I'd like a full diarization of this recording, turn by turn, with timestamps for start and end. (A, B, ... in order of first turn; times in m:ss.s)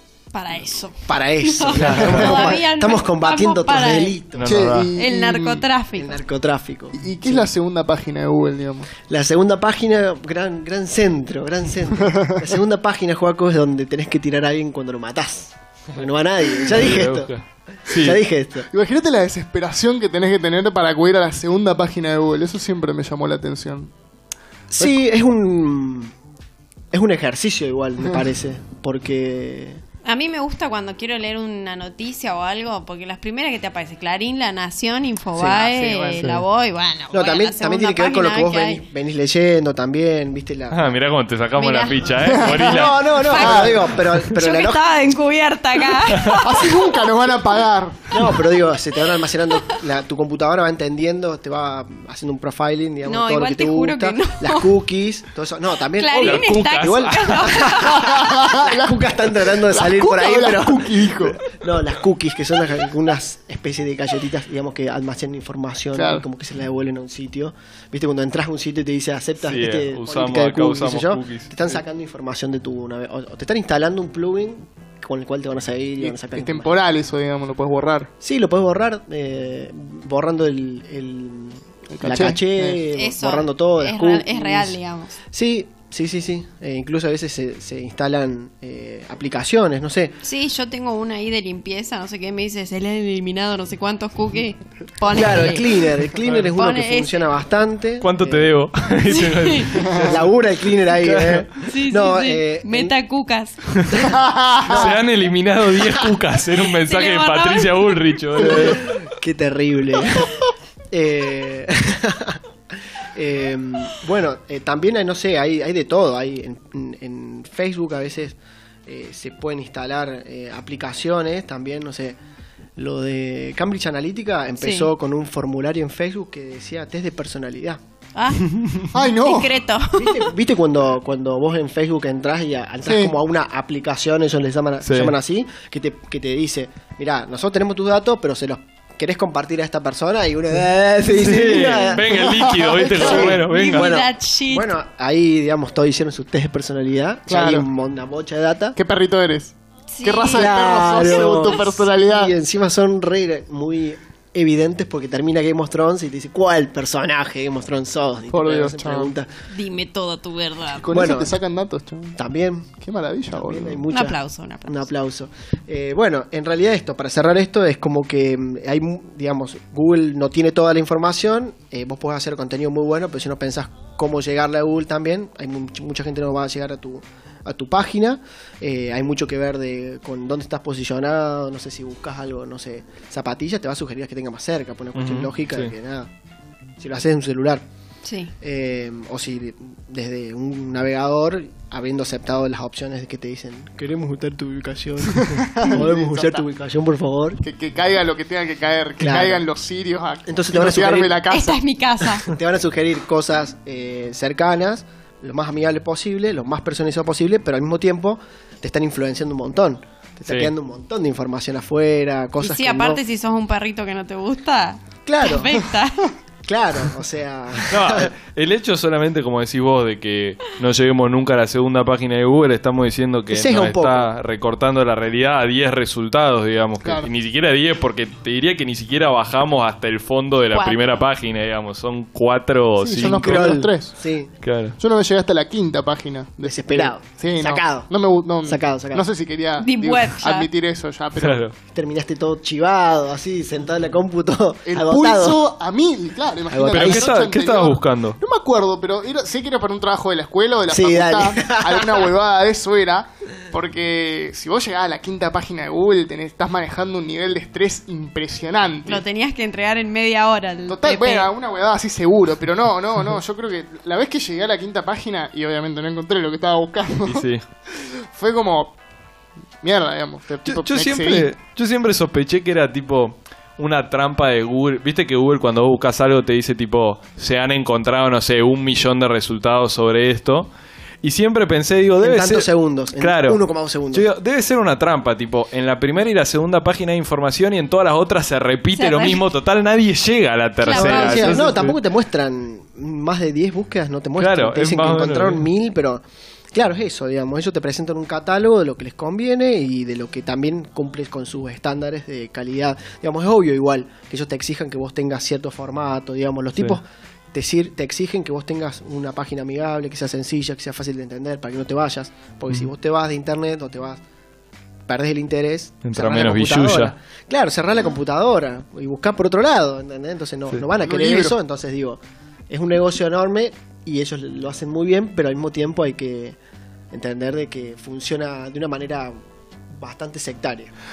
0:00.3-0:04.2 A
0:01.0-0:04.6 B
0:01.8-0:02.4 C
0:04.4-0:04.9 C
0:04.4-0:05.6 D
0:05.0-0:06.2 A
0:06.0-0:07.5 B
0:07.0-0:08.9 D
0:09.1-0:17.3 B
0:12.0-0:12.5 D
0:16.6-0:18.2 C
0:17.8-0:18.7 B
0:18.7-0:23.9 D
0:24.7-0:26.1 B
0:26.9-0:29.8 B
0:30.0-0:38.8 A
0:35.4-0:35.6 B
0:35.6-0:36.4 D
0:37.1-0:41.0 B
0:40.7-0:43.6 C
0:41.6-0:42.5 A
0:42.2-0:43.8 D
0:42.5-0:44.8 B
0:43.2-0:46.8 A
0:46.1-0:46.4 C
0:46.2-0:48.1 D
0:48.1-1:16.8 B
0:53.1-0:54.7 A
0:55.9-0:58.6 A
0:56.2-0:57.7 C
0:57.9-1:01.4 D
1:06.0-1:06.2 D
1:09.4-1:11.8 C
1:16.0-1:18.1 D
1:18.2-1:24.8 B
1:21.9-1:22.8 D
1:23.0-1:25.2 A
1:25.3-1:30.2 B
1:30.2-1:35.9 A
1:35.1-1:38.5 B
1:36.5-1:37.3 A
1:38.0-1:41.5 C
1:39.1-1:39.8 A
1:40.0-1:42.9 B
1:41.7-1:44.2 A
1:44.0-1:44.9 D
1:44.7-1:49.0 C
1:46.6-1:48.0 A
1:48.4-1:50.3 B
1:50.9-1:52.4 B
1:53.1-1:58.4 B
1:58.9-2:02.2 B
2:02.8-2:07.8 B
2:04.6-2:04.9 A
2:08.2-2:10.3 A
2:08.4-2:08.9 B
2:08.9-2:09.6 D
2:09.9-2:22.2 B
2:12.8-2:13.1 D
2:14.8-2:15.2 C
2:21.1-2:24.0 C
2:22.1-2:23.4 D
2:23.0-2:28.8 B
2:23.1-2:24.7 A
2:27.3-2:27.7 D
2:28.8-2:32.4 D
2:29.9-2:31.7 A
2:30.3-2:39.3 B
2:38.3-2:39.1 D
2:39.5-2:41.1 A
2:40.7-2:42.2 D
2:40.9-2:41.4 B
2:42.2-2:42.7 B
2:42.8-2:43.8 D
2:43.3-3:06.1 B
2:43.9-2:44.9 A
3:05.0-3:05.7 C
3:06.8-3:07.6 B
3:08.0-3:08.3 A
3:08.4-3:17.4 B
3:15.1-3:16.5 D
3:17.4-3:21.6 D
3:19.0-3:19.4 B
3:20.3-3:21.2 B
3:21.3-3:22.3 A
3:22.2-3:33.0 B
3:30.3-3:30.5 C
3:32.4-3:36.1 A
3:35.0-3:35.6 B
3:36.5-3:38.1 B
3:37.7-3:53.6 C
3:43.3-3:44.1 B
3:50.5-3:51.0 A
3:52.8-3:54.0 D
3:53.0-3:54.3 B
3:54.4-3:54.8 C
3:54.8-4:01.4 D
3:56.4-3:57.9 B
3:58.4-3:59.1 B
3:59.6-4:00.5 A
4:01.2-4:01.6 C
4:01.7-4:05.4 B
4:04.7-4:19.0 D
4:06.5-4:07.2 B
4:06.7-4:08.2 C
4:10.7-4:12.1 B
4:18.9-4:21.3 A
4:20.7-4:28.8 D
4:27.1-4:27.4 C
4:29.6-4:31.3 D
4:30.5-4:40.5 C
4:41.0-4:51.8 C
4:42.0-4:44.1 B
4:48.7-4:49.2 A
4:50.6-4:51.6 A
4:50.7-5:14.0 B
4:54.2-4:55.5 C
5:14.9-5:26.4 B
5:15.8-5:16.9 C
5:20.8-5:21.4 D
5:26.9-5:29.2 B
5:29.7-5:30.7 B